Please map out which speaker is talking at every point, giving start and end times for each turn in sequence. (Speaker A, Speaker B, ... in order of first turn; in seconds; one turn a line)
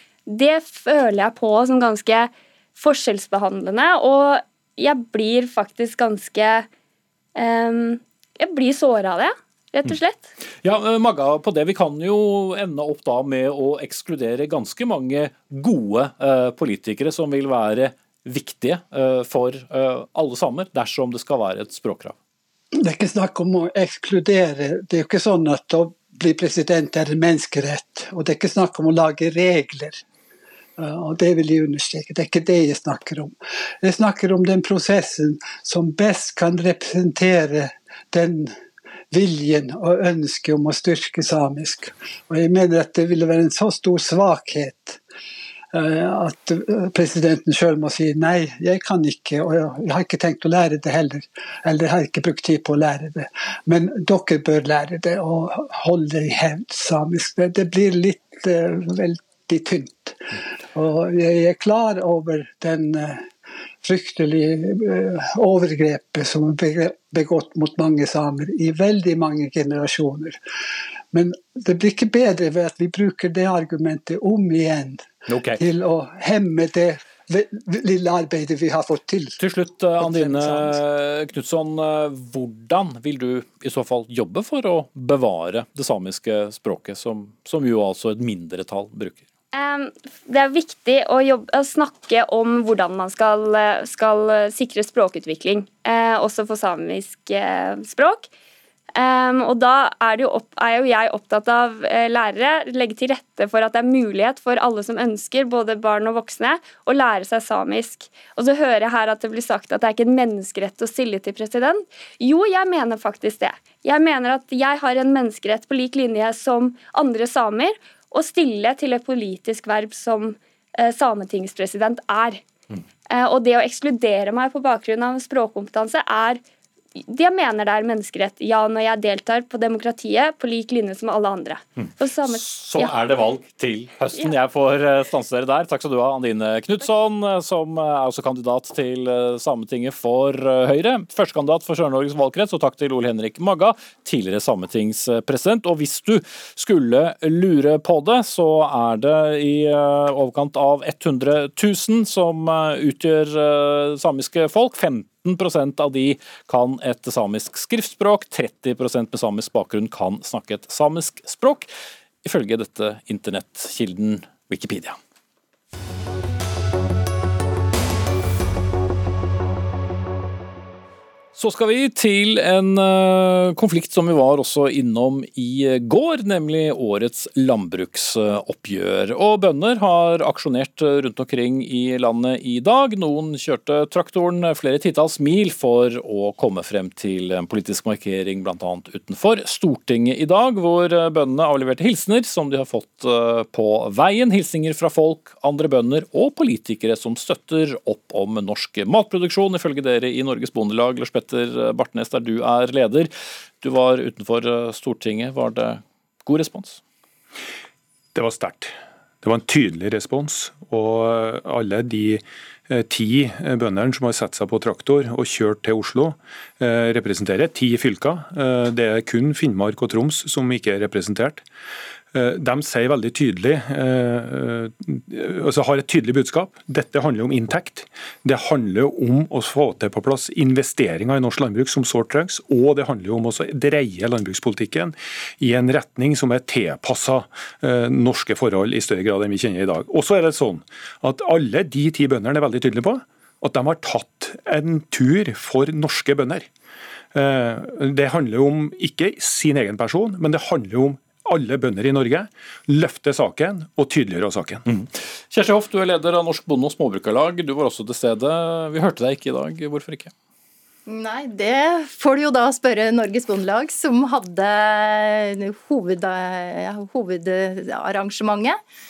Speaker A: 0.3-6.7
Speaker A: 7.3-10.3
Speaker B: 10.6-22.1
Speaker C: 22.7-30.0
Speaker C: 30.8-38.5
Speaker C: 39.1-45.0
Speaker C: 45.7-63.3
Speaker C: 63.8-70.4
Speaker C: 71.1-79.4
Speaker B: 75.3-75.6
Speaker B: 79.4-89.2
Speaker C: 80.0-80.8
Speaker A: 89.5-98.3
Speaker A: 98.9-122.4
Speaker A: 123.1-126.4
Speaker A: 127.0-133.0
Speaker B: 131.8-161.7
Speaker B: 162.2-165.0
Speaker B: 171.3-203.1
Speaker B: 203.6-206.8
Speaker D: 208.1-221.4
Speaker D: 222.1-246.5
Speaker D: 247.1-254.6
Speaker B: 254.7-260.1
Speaker E: 260.9-268.6